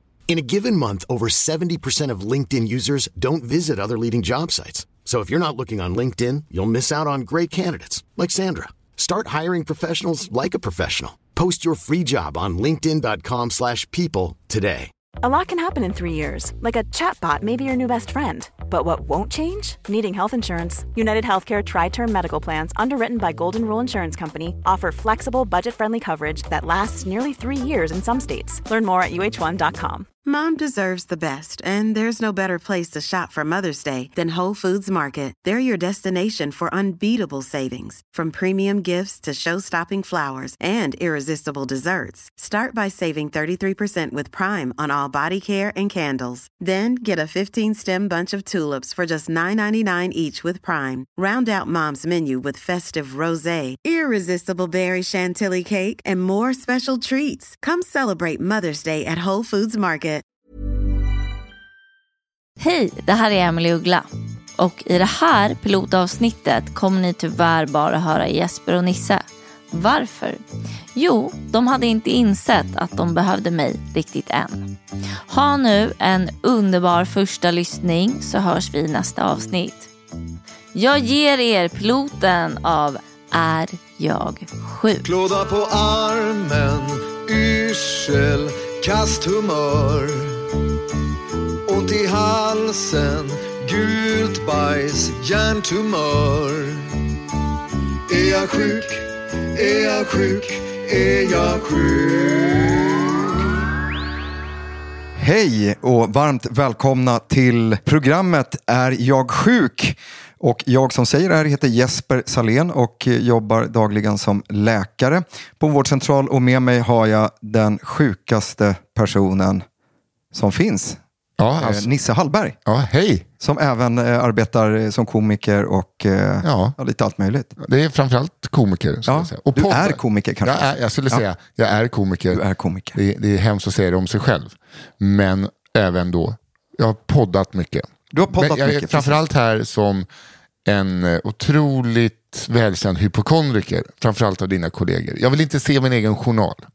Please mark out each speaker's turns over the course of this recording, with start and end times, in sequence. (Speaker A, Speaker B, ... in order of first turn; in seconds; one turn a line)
Speaker A: 0.3-14.9
Speaker B: 15.2-30.1
Speaker C: 30.2-60.2
Speaker D: 62.6-64.1
Speaker D: 64.6-70.4
Speaker D: 71.0-74.8
Speaker D: 75.3-79.9
Speaker D: 80.7-85.1
Speaker E: 85.0-90.4
Speaker E: 91.7-96.9
Speaker E: 98.1-103.0
Speaker F: 105.2-119.6
Speaker F: 120.3-121.0
Speaker G: 121.4-121.9
Speaker F: 121.6-122.6
Speaker G: 122.7-123.3
Speaker F: 123.4-127.5
Speaker G: 126.4-126.8
Speaker G: 127.6-132.4
Speaker F: 129.1-131.2
Speaker F: 132.3-133.0
Speaker G: 132.9-140.1
Speaker F: 138.1-139.2
Speaker G: 140.7-146.7